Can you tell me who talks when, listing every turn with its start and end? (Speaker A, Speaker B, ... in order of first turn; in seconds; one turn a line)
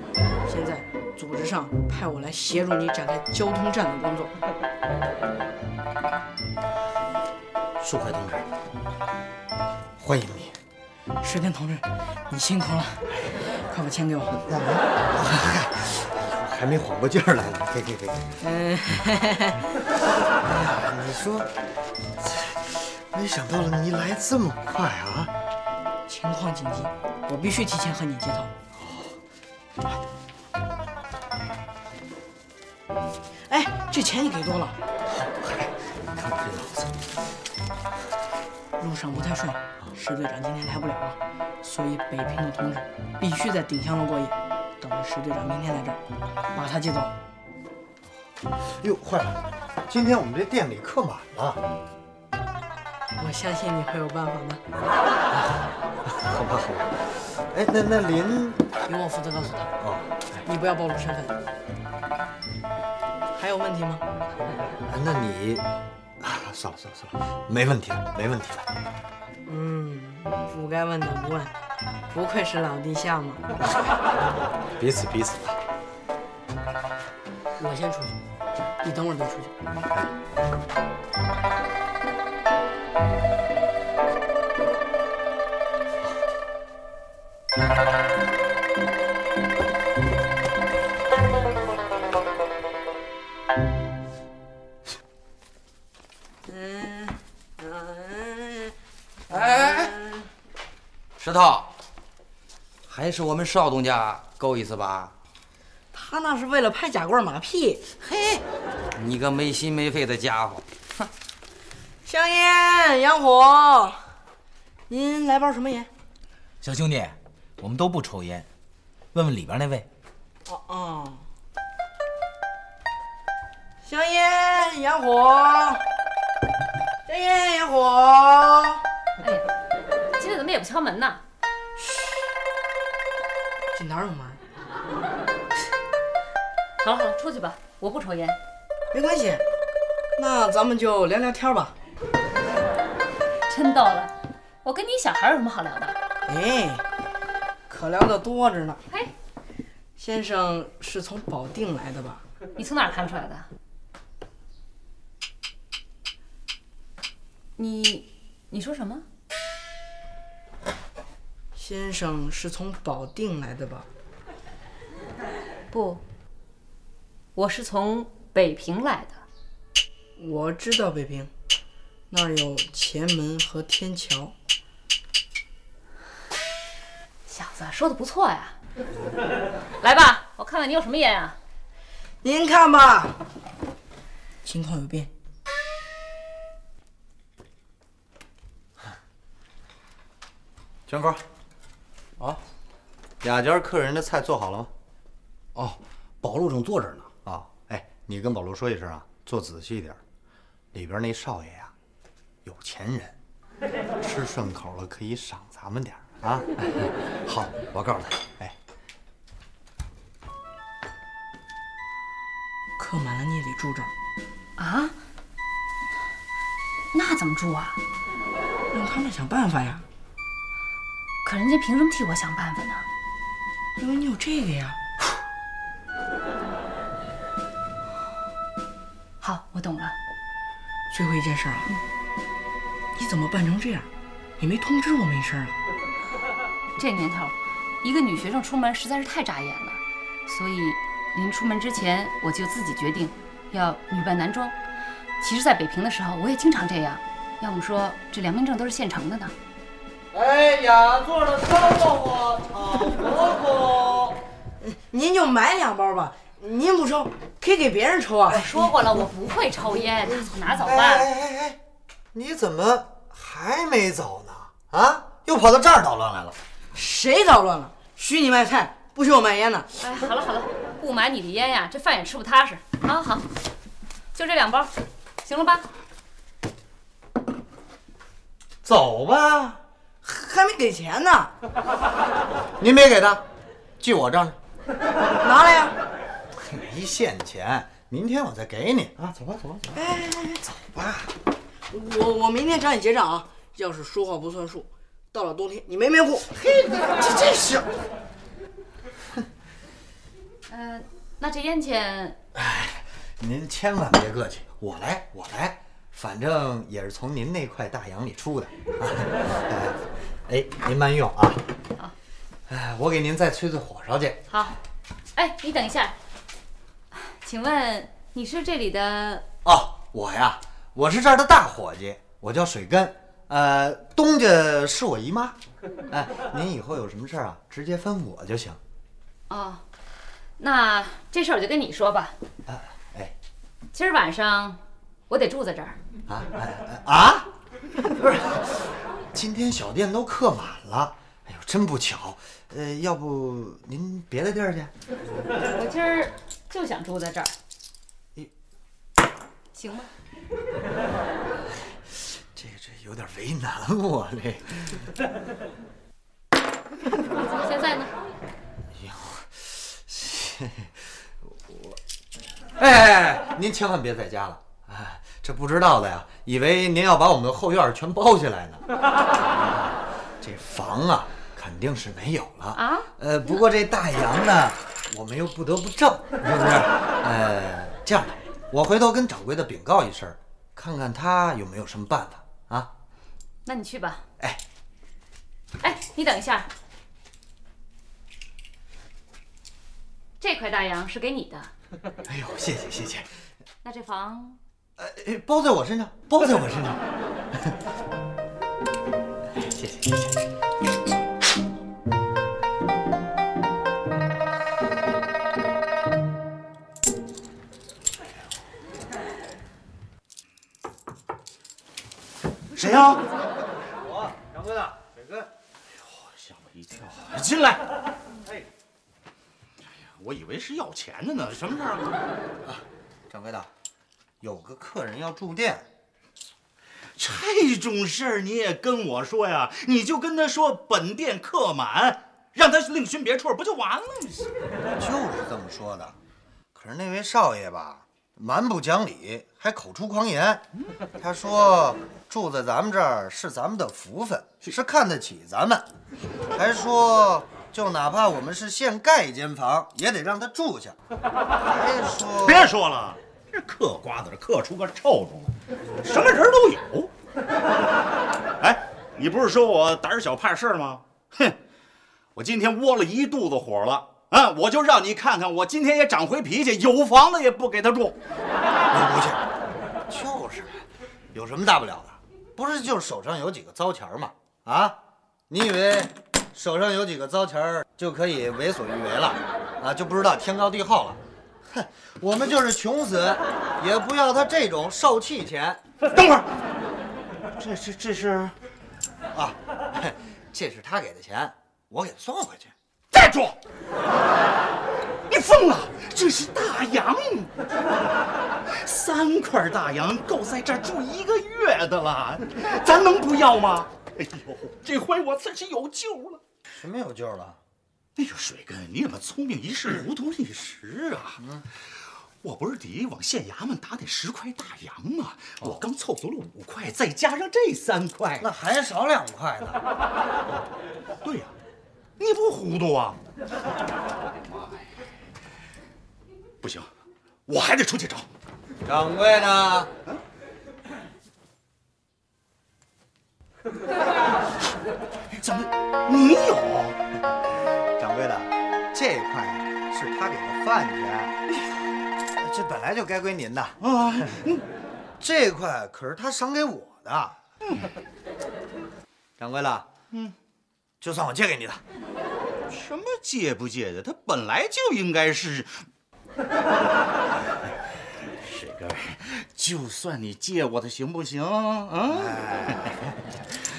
Speaker A: 0.5-4.3
Speaker B: 7.8-8.5
Speaker B: 10.0-10.6
Speaker A: 11.2-13.1
Speaker A: 13.7-14.4
Speaker B: 14.5-18.4
Speaker A: 18.4-19.6
Speaker B: 20.4-21.5
Speaker B: 22.2-25.3
Speaker A: 26.1-28.5
Speaker B: 28.8-29.1
Speaker A: 33.5-34.8
Speaker B: 35.1-36.9
Speaker A: 38.8-46.0
Speaker A: 46.5-47.1
Speaker B: 48.8-51.6
Speaker A: 53.2-54.6
Speaker B: 56.1-58.7
Speaker A: 58.9-59.7
Speaker B: 59.8-60.4
Speaker A: 60.5-61.4
Speaker A: 63.4-64.0
Speaker B: 64.9-65.7
Speaker B: 66.2-68.7
Speaker A: 69.5-71.5
Speaker A: 72.1-73.5
Speaker B: 74.8-75.6
Speaker A: 77.6-78.2
Speaker A: 78.8-79.5
Speaker A: 96.5-98.7
Speaker A: 99.3-100.3
Speaker C: 99.6-99.9
Speaker C: 101.2-101.7
Speaker C: 102.9-105.1
Speaker A: 105.9-107.9
Speaker C: 109.0-110.6
Speaker A: 112.0-114.0
Speaker A: 114.9-115.9
Speaker D: 116.6-118.5
Speaker D: 119.1-119.9
Speaker A: 120.5-121.2
Speaker A: 123.8-125.8
Speaker A: 127.1-128.8
Speaker E: 129.2-129.5
Speaker E: 130.2-131.2
Speaker A: 131.8-132.2
Speaker A: 133.7-134.4
Speaker E: 136.8-138.4
Speaker A: 138.9-139.4
Speaker A: 140.2-141.8
Speaker E: 143.5-144.1
Speaker E: 144.6-146.0
Speaker A: 146.3-146.8
Speaker A: 147.7-148.8
Speaker A: 150.0-152.2
Speaker E: 152.6-153.5
Speaker E: 157.6-159.1
Speaker A: 161.6-163.9
Speaker E: 165.7-166.0
Speaker E: 167.3-169.2
Speaker A: 170.2-171.3
Speaker A: 172.1-174.3
Speaker E: 177.3-178.6
Speaker E: 179.8-181.4
Speaker A: 182.2-183.2
Speaker A: 184.4-185.1
Speaker B: 190.9-191.2
Speaker B: 193.2-194.7
Speaker F: 196.7-196.9
Speaker B: 197.2-200.0
Speaker B: 200.7-201.7
Speaker B: 202.4-203.2
Speaker B: 204.0-208.6
Speaker A: 212.8-213.9
Speaker E: 214.6-214.9
Speaker E: 216.9-217.8
Speaker A: 218.7-219.8
Speaker E: 221.2-222.9
Speaker A: 223.8-224.8
Speaker E: 229.2-230.0
Speaker A: 230.9-231.7
Speaker A: 233.0-233.9
Speaker A: 234.4-235.6
Speaker E: 236.8-244.6
Speaker E: 245.2-249.3
Speaker B: 250.1-254.2
Speaker A: 254.7-258.6
Speaker E: 258.3-261.1
Speaker B: 260.6-261.6
Speaker B: 262.1-266.4
Speaker A: 266.7-269.7
Speaker E: 269.8-273.3
Speaker E: 274.1-275.7
Speaker B: 278.6-279.6
Speaker A: 280.0-281.3
Speaker B: 282.6-283.2
Speaker B: 283.8-284.4
Speaker A: 285.2-285.8
Speaker B: 286.4-289.7
Speaker A: 289.7-290.4
Speaker B: 290.7-291.0
Speaker A: 291.7-296.3
Speaker B: 296.4-297.7
Speaker E: 300.5-302.2
Speaker B: 302.3-311.4
Speaker B: 312.5-314.3
Speaker E: 314.3-314.6
Speaker E: 315.2-316.0
Speaker E: 316.9-319.3
Speaker B: 319.4-325.4
Speaker B: 325.9-328.6
Speaker E: 329.3-329.6
Speaker E: 330.4-332.1
Speaker B: 332.5-333.1
Speaker E: 333.7-335.8
Speaker B: 336.1-337.3
Speaker B: 337.9-344.7
Speaker E: 345.5-347.3
Speaker E: 349.5-349.9
Speaker B: 351.9-354.8
Speaker E: 357.3-357.9
Speaker B: 358.7-361.8
Speaker B: 362.6-382.7
Speaker E: 372.6-373.3
Speaker E: 383.4-384.1
Speaker E: 385.6-386.5
Speaker E: 390.2-391.5
Speaker B: 392.1-393.1
Speaker E: 393.6-394.4
Speaker B: 394.8-397.6
Speaker B: 399.3-400.2
Speaker F: 412.6-413.0
Speaker B: 413.8-415.3
Speaker F: 415.8-417.6
Speaker F: 419.8-422.0
Speaker B: 422.4-423.5
Speaker B: 424.2-425.7
Speaker F: 427.0-434.3
Speaker B: 434.8-436.0
Speaker B: 436.5-440.4
Speaker B: 441.0-445.7
Speaker B: 446.3-450.8
Speaker B: 451.4-452.5
Speaker F: 452.2-456.9
Speaker F: 458.4-461.4
Speaker F: 462.1-468.0
Speaker B: 468.7-469.2
Speaker B: 469.9-470.6
Speaker B: 471.1-474.8
Speaker B: 475.3-485.6
Speaker F: 485.9-486.3
Speaker F: 487.4-488.3
Speaker B: 489.1-492.5
Speaker F: 492.9-493.4
Speaker F: 495.1-497.3
Speaker F: 498.5-506.2
Speaker B: 506.5-507.4
Speaker F: 508.0-511.2
Speaker B: 511.2-511.4
Speaker F: 512.2-518.3
Speaker B: 518.2-519.6
Speaker F: 521.0-521.3
Speaker F: 522.0-523.0
Speaker F: 526.4-526.7
Speaker F: 527.3-528.1
Speaker B: 528.6-529.7
Speaker F: 535.1-536.8
Speaker B: 537.8-541.2
Speaker B: 542.2-544.2
Speaker F: 543.6-544.4
Speaker B: 545.0-547.2
Speaker B: 549.2-549.7
Speaker B: 550.8-551.6
Speaker F: 552.5-555.7
Speaker F: 558.2-562.8
Speaker B: 561.9-562.8